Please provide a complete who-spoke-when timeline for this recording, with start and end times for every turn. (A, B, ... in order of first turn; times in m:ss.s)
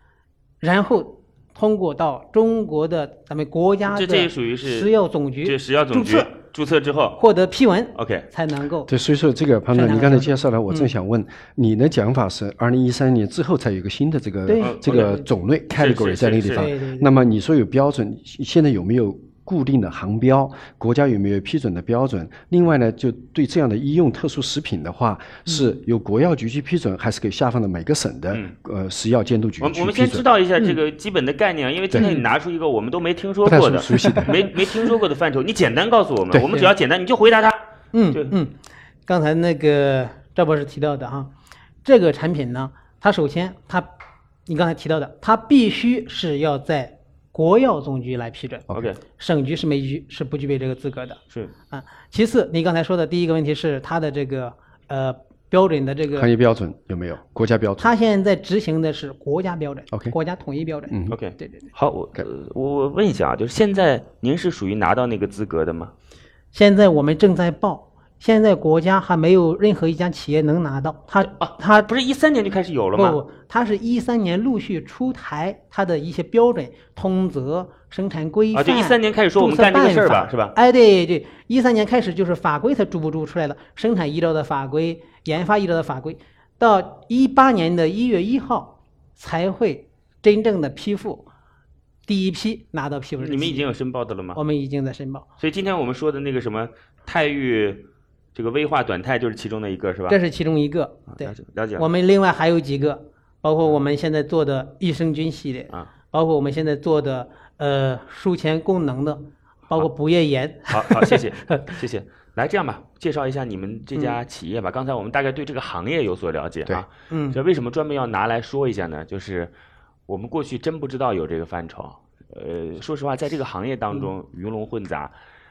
0:00.6-0:06.3 A
0:03.9-0:04.9 B
0:05.4-0:07.2 B
0:07.2-0:08.9 A
0:08.0-0:08.3 B
0:08.9-0:30.2 C
0:09.7-0:10.9 A
0:14.5-0:15.2 A
0:14.6-0:15.2 B
0:15.7-0:16.7 B
0:16.6-0:17.1 A
0:29.6-0:37.6 B
0:33.4-0:34.4 C
0:37.9-0:38.6 A
0:39.1-0:41.3 A
0:41.8-0:43.9 A
0:44.5-0:51.2 A
0:48.7-0:49.0 B
0:51.7-0:56.3 A
0:56.2-0:57.9 C
0:57.8-1:01.6 A
1:00.9-1:01.2 C
1:01.1-1:05.9 B
1:06.5-1:11.9 A
1:11.2-1:13.2 B
1:12.9-1:31.3 A
1:18.5-1:20.6 B
1:32.1-1:33.6 A
1:33.2-1:34.4 B
1:34.3-1:35.2 A
1:35.4-1:40.2 B
1:40.1-1:51.6 A
1:41.2-1:41.8 B
1:50.7-1:59.5 B
1:57.1-1:57.4 A
2:00.1-2:05.1 B